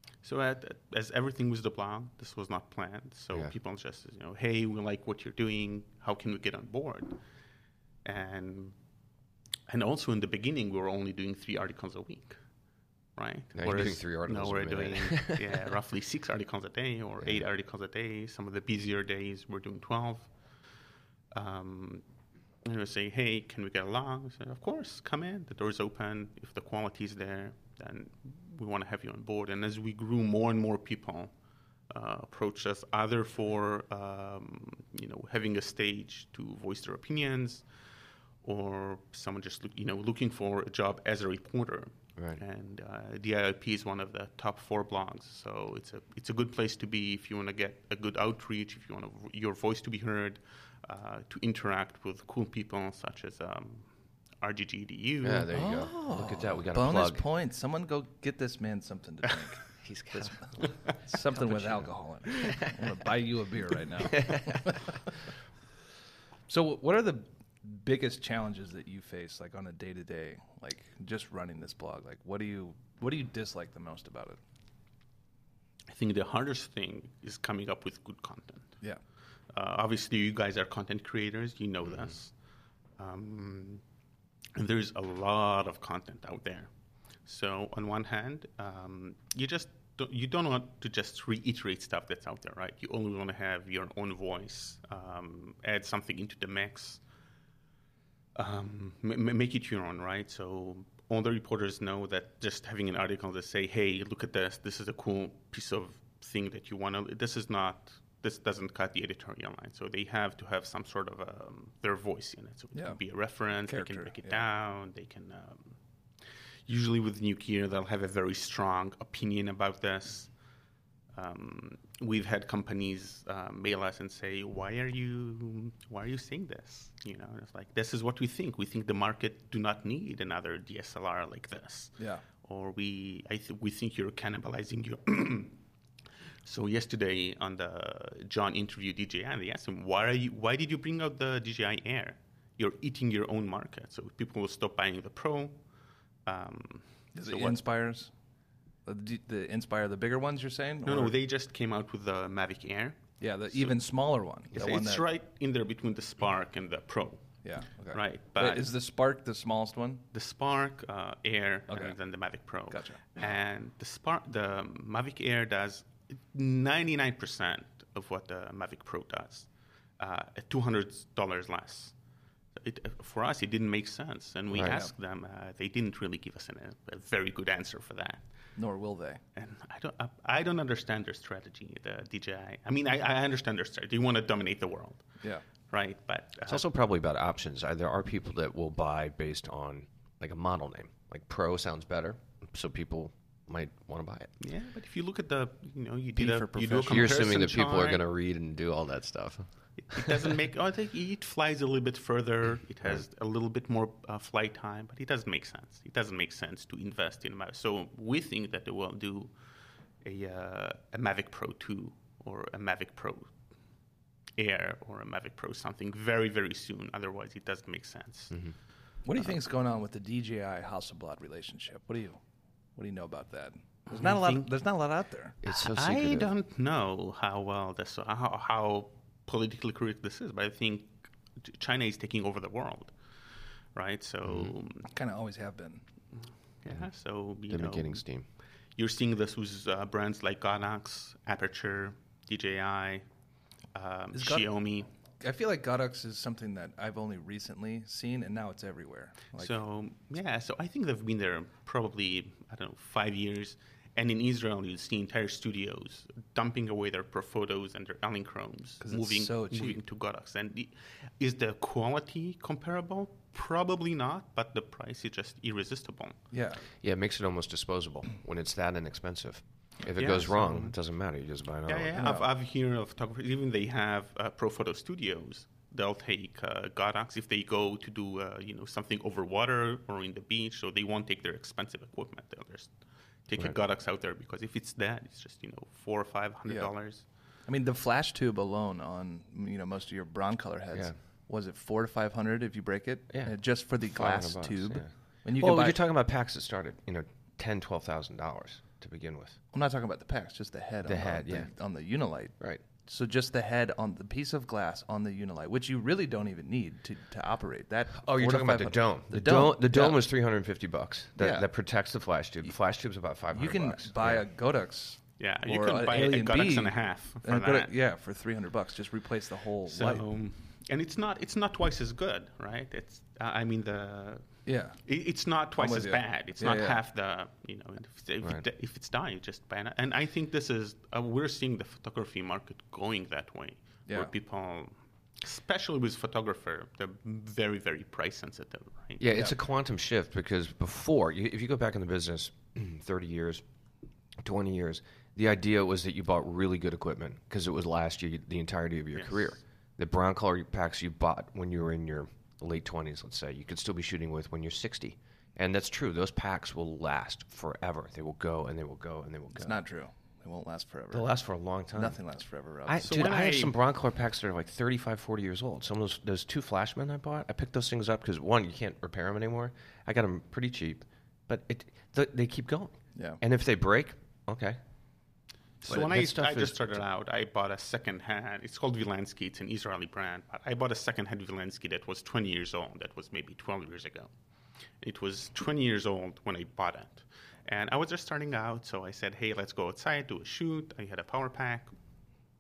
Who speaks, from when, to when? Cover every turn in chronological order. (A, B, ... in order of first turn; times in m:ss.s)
0:00.2-0:07.2 A
0:08.0-0:08.8 A
0:09.7-0:12.4 A
0:13.2-0:20.3 A
0:13.6-0:15.6 B
0:21.3-0:22.0 A
0:22.6-0:31.3 A
0:31.9-0:37.6 A
0:38.4-0:53.9 A
0:54.4-0:55.5 A
0:55.2-0:57.2 B
0:55.5-0:59.6 C
0:59.8-1:00.7 B
1:01.0-1:04.9 C
1:01.3-1:01.9 B
1:02.5-1:02.9 B
1:04.0-1:05.0 B
1:06.5-1:14.4 C
1:15.9-1:18.7 A
1:19.5-1:22.3 A
1:23.0-1:23.8 A
1:24.6-1:26.7 A
1:27.3-1:37.0 A
1:38.4-1:55.8 A
1:52.7-1:53.0 C
1:53.6-1:54.4 C
1:56.7-2:00.3 A
2:01.1-2:15.6 A
2:12.0-2:12.2 C
2:16.4-2:25.6 A
2:26.3-2:27.6 A
2:27.2-2:28.1 C
2:28.9-2:31.1 C
2:30.8-2:33.0 A
2:33.2-2:35.0 C
2:33.5-2:33.8 A
2:34.5-2:37.2 A
2:37.4-2:40.0 C
2:37.9-2:38.7 A
2:40.1-2:49.5 A
2:41.7-2:42.0 C
2:42.7-2:43.0 C
2:50.0-2:51.9 A
2:52.6-2:58.2 A
2:54.5-2:54.8 B
2:54.6-2:54.9 C
2:58.6-2:59.2 C
2:59.4-3:05.1 A
3:05.7-3:06.6 A
3:06.5-3:14.3 B
3:14.4-3:18.0 A
3:16.2-3:17.5 C
3:16.9-3:20.3 B
3:19.8-3:29.3 A
3:30.0-3:33.3 A
3:34.4-3:38.4 A
3:39.0-3:42.2 C
3:42.8-3:45.4 C
3:43.9-3:44.5 A
3:45.4-3:46.3 B
3:45.5-3:52.9 A
3:53.8-3:54.9 A
3:54.2-3:54.5 B
3:54.9-3:55.8 C
3:56.6-3:58.0 A
3:57.5-3:58.3 B
3:58.8-4:03.0 A
4:03.7-4:04.9 A
4:04.1-4:04.5 C
4:05.2-4:09.6 C
4:09.4-4:26.2 A
4:18.8-4:19.8 C
4:26.3-4:26.6 C
4:26.8-4:32.0 B
4:30.0-4:30.7 A
4:31.7-4:42.7 A
4:32.0-4:32.3 C
4:43.3-4:47.0 A
4:47.5-4:55.8 C
4:53.1-4:59.4 B
4:59.5-5:02.3 C
5:00.8-5:01.5 B
5:02.9-5:10.0 C
5:07.9-5:14.3 B
5:11.2-5:11.5 C
5:13.3-5:20.0 C
5:15.2-5:17.7 A
5:19.7-5:39.0 A
5:24.5-5:24.8 C
5:25.6-5:26.8 C
5:39.0-5:43.4 B
5:44.2-5:59.6 B
5:49.0-5:49.3 A
5:59.4-6:01.1 C
6:00.9-6:02.0 B
6:01.7-6:03.0 C
6:02.7-6:14.6 B
6:02.8-6:03.6 A
6:15.6-6:24.1 A
6:15.6-6:16.8 B
6:24.8-6:31.7 A